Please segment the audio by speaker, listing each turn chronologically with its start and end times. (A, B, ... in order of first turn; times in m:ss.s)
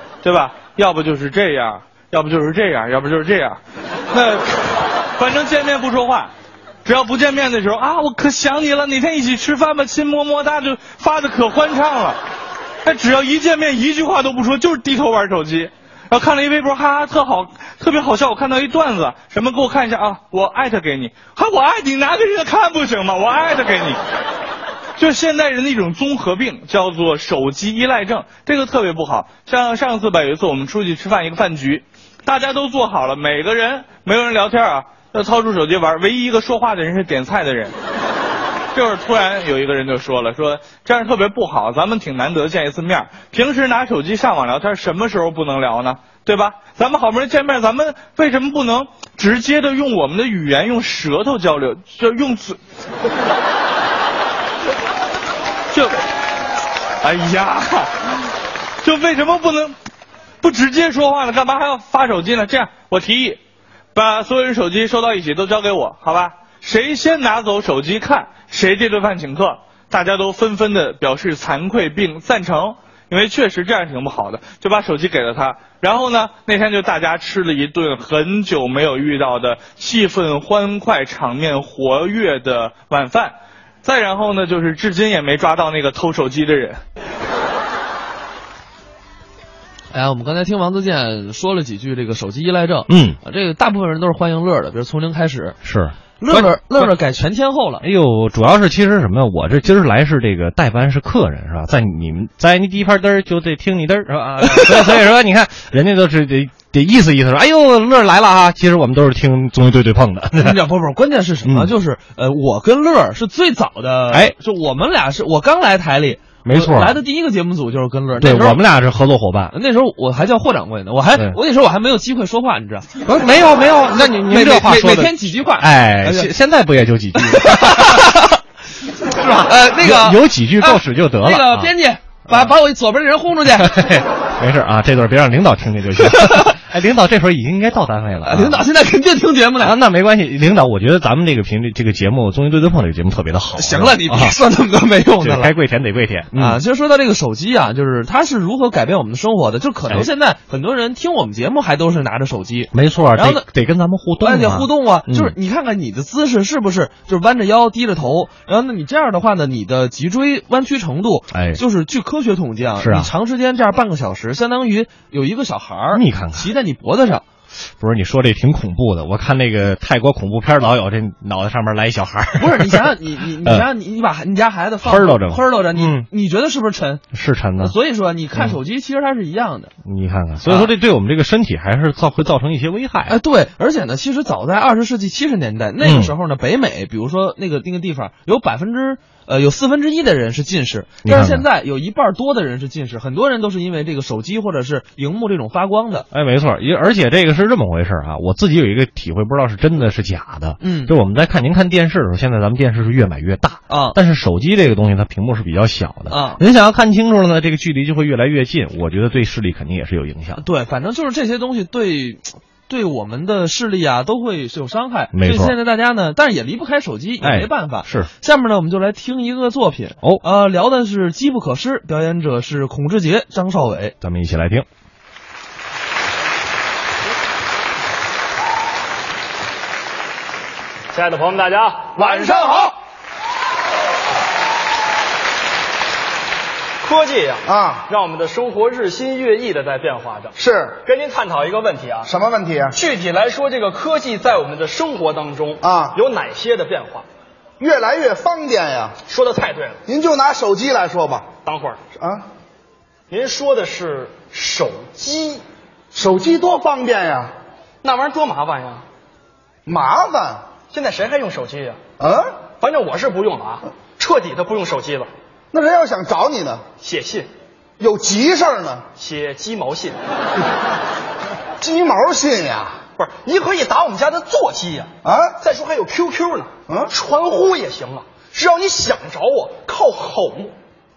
0:00.2-0:03.6 A
0:04.1-0:06.3 A
0:06.8-0:12.2 A
0:12.8-0:24.0 A
0:25.0-0:37.7 A
0:38.7-0:52.6 A
0:55.7-0:56.0 A
0:57.0-0:57.9 A
0:58.8-0:59.7 A
1:00.4-1:03.4 A
1:03.9-1:26.8 A
1:29.9-1:35.6 B
1:32.9-1:33.2 C
1:35.6-1:36.9 C
1:36.2-1:37.8 B
1:37.8-1:50.6 C
1:44.4-1:45.0 B
1:50.4-1:58.6 B
1:51.4-1:51.7 C
1:56.4-1:57.0 C
1:58.2-1:59.5 C
1:59.5-2:02.9 B
2:03.0-2:08.2 C
2:04.0-2:06.3 B
2:07.2-2:08.4 B
2:09.2-2:13.8 B
2:09.2-2:11.7 C
2:13.6-2:18.7 C
2:16.0-2:16.5 B
2:18.2-2:19.8 B
2:19.6-2:24.4 C
2:23.6-2:25.5 B
2:25.2-2:26.6 C
2:26.3-2:33.4 B
2:32.7-2:35.3 C
2:34.2-2:47.2 B
2:41.3-2:41.6 C
2:42.8-2:43.1 C
2:45.9-2:46.5 C
2:47.8-2:53.6 C
2:52.4-2:57.0 B
2:54.8-2:56.1 C
2:57.1-2:57.7 C
2:57.6-2:59.7 B
2:59.8-3:03.2 C
3:00.4-3:00.7 B
3:03.1-3:16.1 B
3:05.8-3:06.2 C
3:11.0-3:11.4 C
3:16.1-3:30.4 C
3:20.6-3:20.9 B
3:23.7-3:24.0 B
3:26.1-3:26.4 B
3:30.4-3:43.9 B
3:35.1-3:35.6 C
3:37.2-3:38.1 C
3:44.0-3:44.6 C
3:50.9-3:52.7 D
3:51.9-3:52.7 E
3:56.8-4:02.1 D
3:57.4-3:57.9 E
4:00.4-4:00.8 E
4:02.0-4:02.8 E
4:02.7-4:07.0 D
4:05.6-4:06.0 E
4:07.6-4:09.0 E
4:09.1-4:09.8 D
4:09.8-4:11.3 E
4:11.4-4:11.8 D
4:12.0-4:12.3 E
4:13.1-4:15.4 D
4:15.9-4:17.3 E
4:17.8-4:18.8 D
4:19.6-4:20.4 E
4:20.7-4:21.8 D
4:22.0-4:22.3 E
4:22.6-4:25.1 D
4:25.5-4:26.6 E
4:26.8-4:27.3 D
4:27.8-4:28.8 E
4:29.0-4:30.0 D
4:31.6-4:32.8 E
4:33.0-4:40.5 D
4:35.0-4:35.4 E
4:36.7-4:36.9 E